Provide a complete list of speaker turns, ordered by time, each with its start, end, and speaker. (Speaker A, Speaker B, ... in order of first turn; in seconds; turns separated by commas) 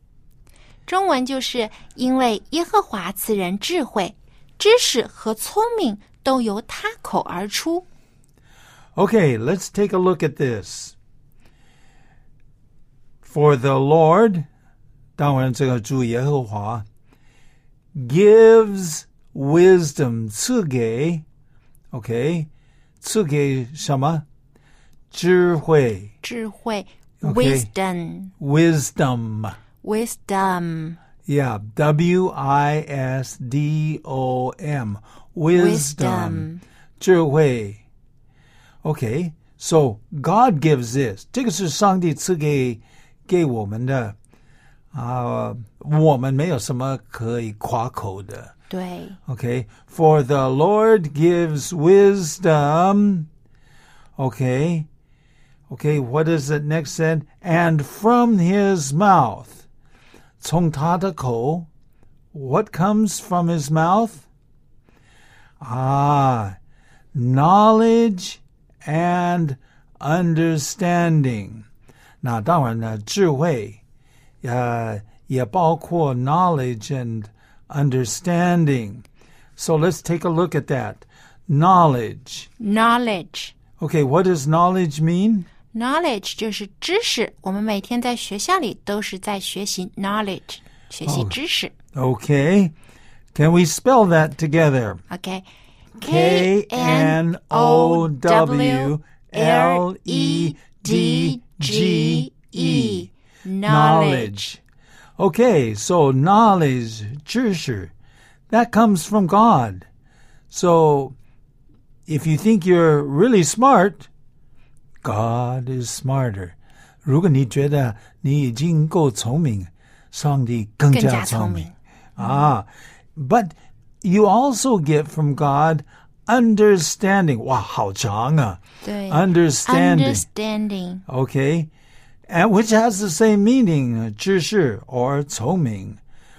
Speaker A: 0.9-7.9, Speaker B: 8.9-10.9, Speaker B: 13.2-14.4, Speaker B: 15.2-16.9, Speaker B: 17.9-21.2, Speaker B: 21.9-22.5, Speaker B: 23.0-24.3, Speaker B: 25.1-26.1, Speaker A: 26.2-28.3, Speaker B: 27.2-27.7, Speaker B: 28.4-29.6, Speaker A: 29.8-31.0, Speaker B: 31.3-36.5, Speaker A: 35.5-36.6, Speaker B: 37.0-37.8, Speaker B: 38.8-44.1, Speaker B: 44.9-48.5, Speaker A: 48.7-49.2, Speaker B: 49.3-53.3, Speaker B: 54.2-54.9, Speaker B: 55.7-59.6, Speaker B: 60.4-61.7, Speaker B: 62.3-64.2, Speaker B: 65.6-66.6, Speaker B: 67.1-71.6, Speaker B: 72.2-73.8, Speaker B: 74.4-79.0, Speaker B: 79.6-82.5, Speaker A: 82.6-83.5, Speaker B: 83.8-85.5, Speaker A: 85.7-91.7, Speaker B: 91.0-91.4, Speaker B: 91.9-92.7, Speaker B: 93.3-95.0, Speaker A: 95.1-95.4, Speaker B: 96.0-103.1, Speaker A: 96.0-104.4, Speaker B: 103.6-104.6, Speaker B: 105.2-107.9, Speaker B: 108.5-109.9, Speaker B: 110.5-111.2, Speaker B: 112.1-114.1, Speaker B: 115.0-130.2, Speaker A: 120.9-122.5, Speaker A: 128.8-131.0, Speaker B: 131.1-131.7, Speaker B: 132.3-136.0